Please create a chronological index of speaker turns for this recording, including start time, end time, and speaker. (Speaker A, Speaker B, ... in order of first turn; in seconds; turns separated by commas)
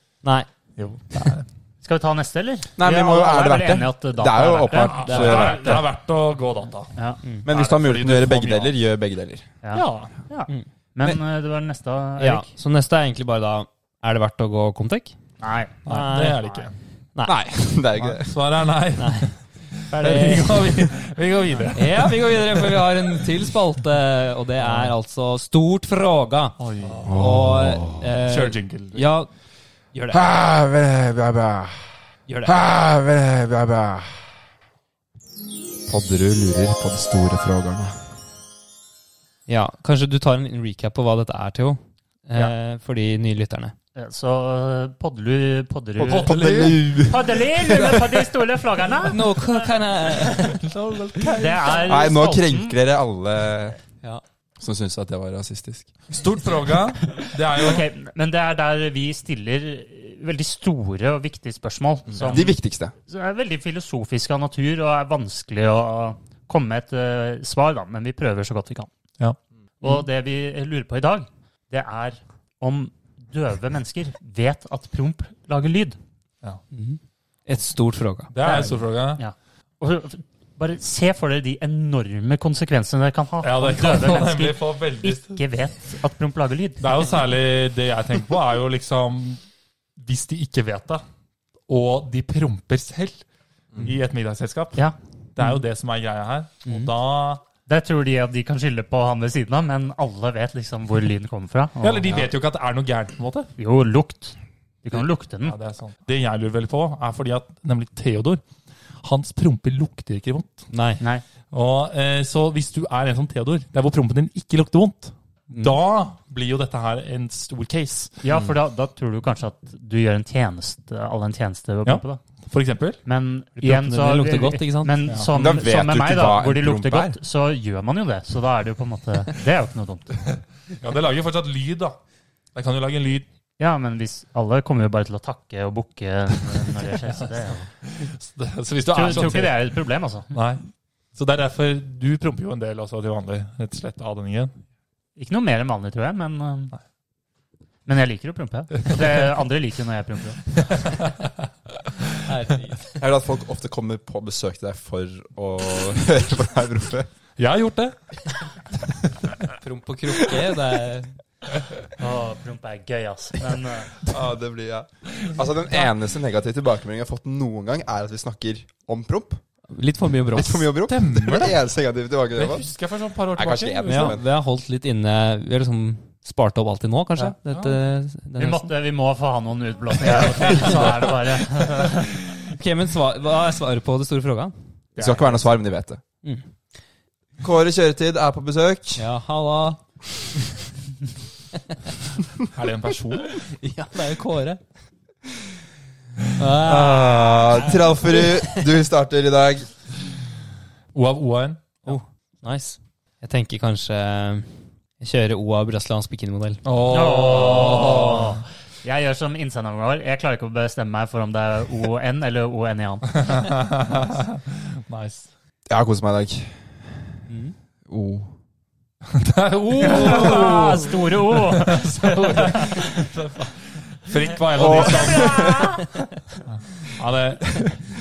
Speaker A: 0.2-0.5, Speaker B: 0.8-1.4, Speaker C: 1.8-5.8, Speaker D: 2.8-5.8, Speaker B: 4.7-8.7, Speaker C: 6.9-7.2, Speaker D: 7.4-9.5, Speaker C: 9.6-12.5, Speaker B: 9.7-10.1, Speaker A: 12.2-15.1, Speaker C: 15.4-15.8, Speaker B: 15.8-16.7, Speaker A: 15.8-16.6, Speaker D: 17.2-18.3, Speaker B: 18.0-19.3, Speaker A: 18.9-20.7, Speaker B: 19.8-22.9, Speaker A: 21.7-29.3, Speaker B: 26.6-27.2, Speaker D: 27.0-28.1, Speaker B: 28.2-29.1, Speaker A: 29.9-30.2, Speaker D: 30.1-31.9, Speaker A: 32.3-32.6, Speaker D: 32.4-34.3, Speaker D: 35.9-38.0, Speaker A: 39.5-43.7, Speaker C: 44.0-49.7, Speaker B: 46.0-48.2, Speaker D: 46.2-47.8, Speaker A: 49.0-51.6, Speaker B: 50.4-52.0, Speaker C: 51.3-52.7, Speaker D: 51.8-53.8, Speaker D: 54.6-55.9, Speaker B: 56.1-57.9, Speaker C: 57.6-68.9, Speaker D: 62.1-62.9, Speaker C: 69.8-76.0, Speaker A: 76.7-78.6, Speaker B: 78.3-79.2, Speaker C: 78.4-86.9, Speaker B: 83.4-85.4, Speaker B: 86.8-89.4, Speaker B: 90.0-91.0, Speaker B: 91.7-93.2, Speaker B: 93.8-94.8, Speaker B: 95.3-97.4, Speaker A: 96.7-96.9, Speaker C: 97.7-102.3, Speaker B: 101.8-103.5, Speaker C: 103.6-105.5, Speaker B: 105.4-108.4, Speaker B: 109.0-110.7, Speaker A: 110.7-111.0, Speaker B: 111.5-118.1, Speaker A: 115.5-115.8, Speaker C: 118.2-122.2, Speaker B: 121.8-123.0, Speaker C: 123.0-130.2, Speaker A: 123.6-125.0, Speaker D: 125.3-127.2, Speaker B: 130.8-132.0, Speaker B: 132.5-133.2, Speaker C: 133.6-137.7, Speaker B: 137.8-139.6, Speaker C: 138.9-140.3, Speaker B: 140.3-140.6, Speaker B: 141.1-144.5, Speaker C: 145.2-146.7, Speaker C: 147.8-150.6, Speaker B: 150.7-151.3, Speaker A: 152.2-152.9, Speaker D: 152.9-157.1, Speaker B: 157.4-158.0, Speaker A: 159.6-161.1, Speaker C: 162.0-164.1, Speaker D: 164.0-169.4, Speaker A: 169.7-170.7, Speaker D: 170.3-172.7, Speaker B: 170.9-171.6, Speaker B: 172.3-174.2, Speaker D: 173.3-174.2, Speaker A: 173.8-178.7, Speaker B: 177.5-177.8, Speaker C: 178.4-182.2, Speaker B: 180.0-181.9, Speaker D: 180.1-180.7, Speaker A: 182.5-184.5, Speaker B: 184.9-185.4, Speaker D: 185.0-186.0, Speaker D: 187.4-189.0, Speaker A: 189.0-189.8, Speaker B: 192.5-193.4, Speaker A: 193.5-194.6, Speaker A: 196.4-198.6, Speaker D: 196.6-199.7, Speaker B: 200.9-202.0, Speaker A: 201.8-206.6, Speaker B: 206.6-208.4, Speaker C: 206.9-213.3, Speaker B: 213.2-215.3, Speaker D: 215.7-216.9, Speaker A: 217.3-217.5, Speaker D: 217.9-218.3, Speaker B: 219.1-225.6, Speaker C: 219.8-223.1, Speaker D: 224.5-225.8, Speaker C: 224.5-225.8, Speaker B: 226.5-227.6